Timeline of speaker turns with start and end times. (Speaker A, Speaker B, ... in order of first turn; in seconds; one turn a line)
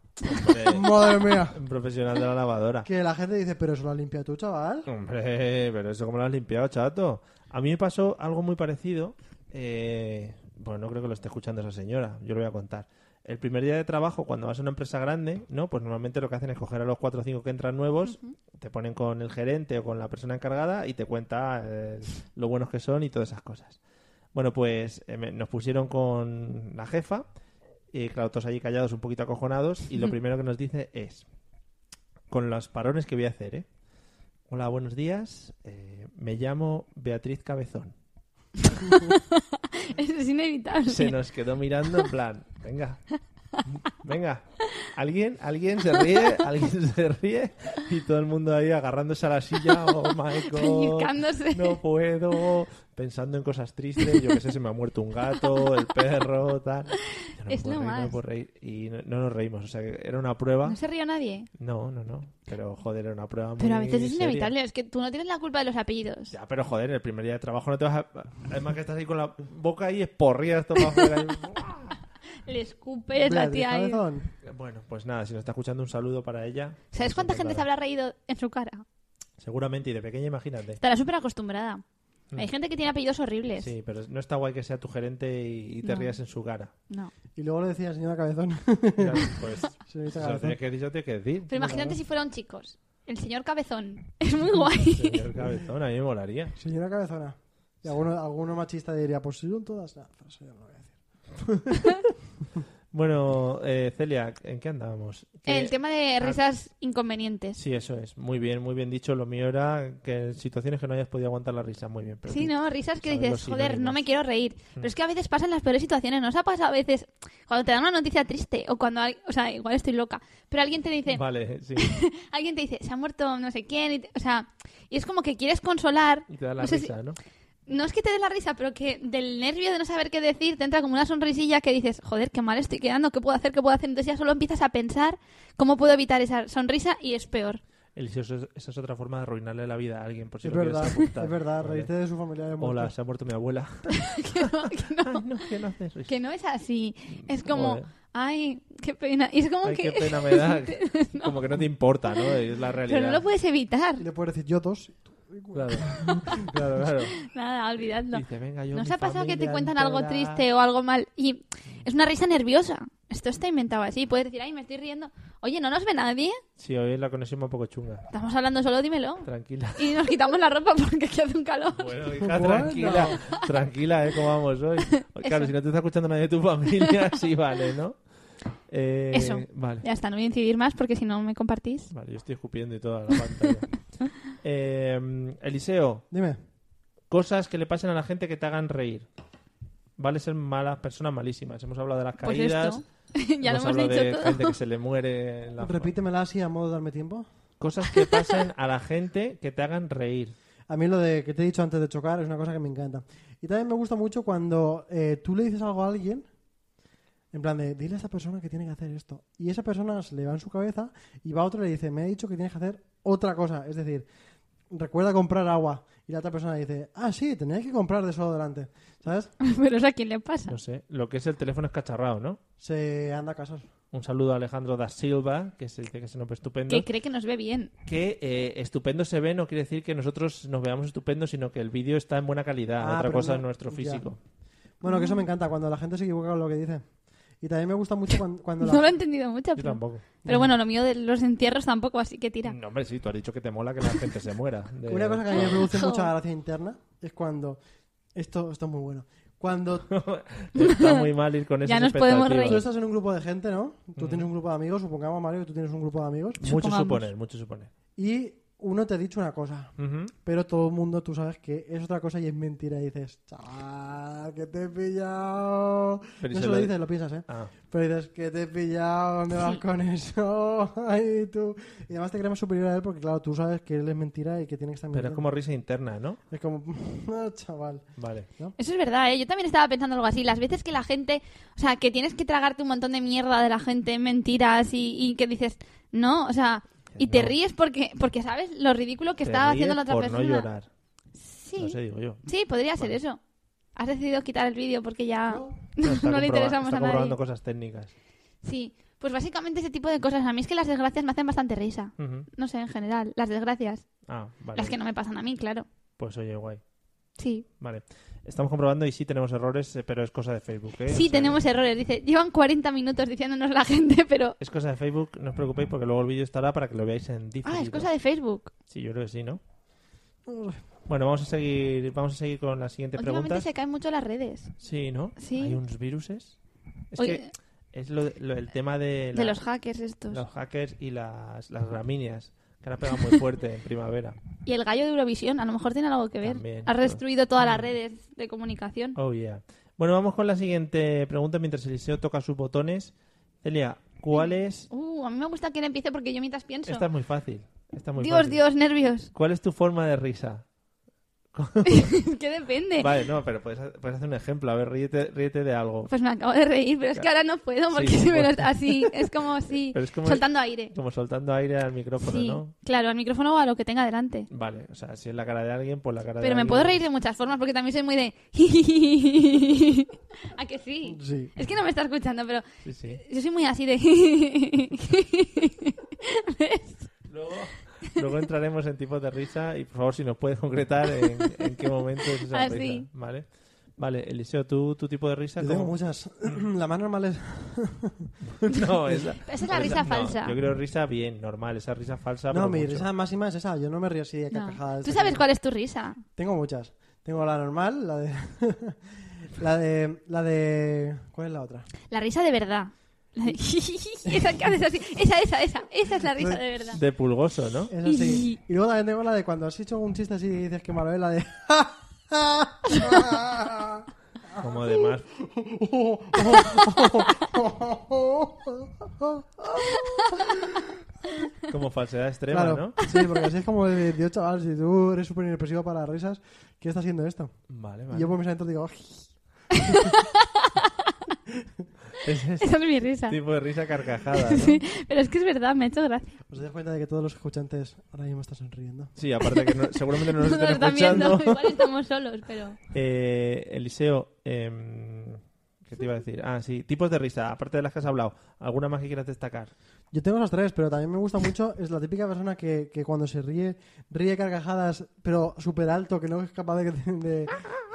Speaker A: 0.2-2.9
Speaker B: 0.5-1.6
Speaker B: 2.8-4.9
Speaker A: 4.9-23.8
Speaker C: 18.1-18.3
Speaker A: 24.3-27.3
Speaker A: 27.9-31.2
Speaker A: 32.3-33.7
Speaker A: 34.5-37.9
Speaker C: 38.8-41.1
Speaker A: 40.9-43.0
Speaker A: 43.6-60.8
Speaker C: 50.5-51.8
Speaker C: 57.5-58.2
Speaker C: 60.6-61.5
Speaker A: 61.6-64.5
Speaker C: 63.6-66.3
Speaker A: 66.3-72.0
Speaker C: 72.5-74.0
Speaker B: 73.1-74.3
Speaker A: 74.4-77.6
Speaker C: 76.9-78.8
Speaker A: 79.4-80.8
Speaker C: 80.8-81.8
Speaker C: 82.4-83.7
Speaker A: 83.6-86.7
Speaker C: 85.8-86.1
Speaker B: 87.4-90.6
Speaker A: 89.0-91.5
Speaker C: 91.5-95.2
Speaker B: 91.5-92.0
Speaker A: 94.6-96.5
Speaker B: 96.6-101.0
Speaker A: 102.9-106.4
Speaker C: 105.5-107.6
Speaker A: 107.5-114.0
Speaker C: 112.3-121.2
Speaker A: 121.1-121.9
Speaker C: 121.8-126.9
Speaker A: 126.3-127.2
Speaker C: 127.7-137.6
Speaker A: 137.9-141.9
Speaker B: 140.4-142.9
Speaker A: 142.6-144.4
Speaker C: 144.1-145.2
Speaker A: 145.0-146.1
Speaker C: 146.1-151.3
Speaker A: 147.2-147.9
Speaker A: 149.6-153.2
Speaker C: 152.9-154.0
Speaker B: 154.0-156.2
Speaker A: 155.5-157.2
Speaker C: 157.3-166.4
Speaker A: 158.1-159.7
Speaker B: 159.4-160.4
Speaker A: 166.6-168.1
Speaker C: 168.1-171.9
Speaker A: 169.2-169.9
Speaker A: 171.7-178.0
Speaker B: 172.2-173.2
Speaker C: 175.2-175.5
Speaker A: 178.7-179.8
Speaker C: 179.1-181.9
Speaker A: 181.9-183.8
Speaker A: 184.4-186.0
Speaker B: 186.1-186.4
Speaker A: 187.1-189.1
Speaker A: 190.0-192.8
Speaker C: 192.2-194.6
Speaker A: 193.4-195.9
Speaker B: 195.6-197.3
Speaker A: 197.6-200.3
Speaker B: 200.7-206.3
Speaker B: 207.3-214.1
Speaker B: 214.7-219.3
Speaker C: 219.4-220.6
Speaker A: 220.5-222.4
Speaker B: 222.6-223.7
Speaker A: 223.9-226.9
Speaker C: 226.7-227.7
Speaker A: 227.9-234.2
Speaker B: 232.8-234.1
Speaker B: 234.8-236.9
Speaker C: 234.8-235.2
Speaker B: 237.4-238.9
Speaker C: 238.6-242.6
Speaker A: 239.6-240.2
Speaker B: 240.3-240.5
Speaker A: 242.4-245.7
Speaker B: 244.9-247.6
Speaker C: 245.3-246.1
Speaker B: 248.1-249.9
Speaker A: 249.9-252.7
Speaker C: 250.6-251.0
Speaker C: 251.6-252.6
Speaker B: 252.4-256.4
Speaker A: 254.0-254.3
Speaker A: 256.4-257.7
Speaker C: 256.4-257.1
Speaker B: 257.9-275.2
Speaker A: 259.8-260.1
Speaker A: 266.2-266.7
Speaker A: 267.3-267.5
Speaker A: 274.9-276.2
Speaker B: 276.3-278.6
Speaker A: 278.0-278.3
Speaker C: 278.6-290.5
Speaker A: 286.9-287.4
Speaker A: 289.2-290.7
Speaker C: 291.2-293.2
Speaker A: 291.6-292.9
Speaker C: 293.7-297.2
Speaker B: 295.3-295.6
Speaker A: 295.8-297.9
Speaker C: 298.4-303.9
Speaker A: 302.0-302.3
Speaker A: 304.1-304.8
Speaker C: 304.5-305.7
Speaker A: 306.0-306.6
Speaker C: 307.2-307.4
Speaker A: 307.6-311.4
Speaker C: 310.9-314.4
Speaker A: 314.4-317.9
Speaker C: 317.4-318.5
Speaker A: 318.7-319.4
Speaker B: 320.3-320.6
Speaker A: 320.9-323.5
Speaker C: 323.0-324.5
Speaker A: 324.6-326.4
Speaker C: 325.2-325.6
Speaker A: 326.9-329.4
Speaker C: 327.0-327.3
Speaker C: 329.1-330.2
Speaker A: 330.1-334.2
Speaker C: 334.4-339.0
Speaker A: 336.2-337.7
Speaker A: 338.9-344.7
Speaker C: 344.1-346.8
Speaker A: 346.7-348.4
Speaker C: 348.0-349.1
Speaker A: 349.1-350.4
Speaker A: 351.3-352.0
Speaker C: 351.6-352.9
Speaker A: 352.8-355.9
Speaker C: 355.9-360.7
Speaker A: 357.7-359.1
Speaker A: 359.7-362.5
Speaker C: 362.0-364.3
Speaker A: 364.3-366.8
Speaker C: 366.2-376.9
Speaker B: 370.9-371.3
Speaker A: 372.6-373.0
Speaker A: 377.1-383.3
Speaker C: 382.3-382.9
Speaker A: 383.8-385.7
Speaker B: 385.4-388.1
Speaker A: 388.4-392.9
Speaker C: 389.2-390.4
Speaker B: 392.3-395.2
Speaker C: 394.3-396.0
Speaker B: 396.2-398.8
Speaker B: 399.3-401.7
Speaker C: 401.9-406.8
Speaker B: 406.1-406.4
Speaker A: 406.7-407.7
Speaker B: 407.7-414.6
Speaker C: 407.8-408.4
Speaker A: 414.4-415.1
Speaker B: 415.2-420.7
Speaker A: 421.5-422.8
Speaker B: 422.3-427.3
Speaker A: 427.5-428.1
Speaker B: 427.9-429.9
Speaker C: 429.6-430.7
Speaker A: 432.0-434.6
Speaker C: 432.4-433.2
Speaker C: 434.2-436.2
Speaker B: 436.3-438.9
Speaker A: 438.9-441.6
Speaker C: 440.0-442.6
Speaker A: 442.7-449.5
Speaker B: 449.9-457.4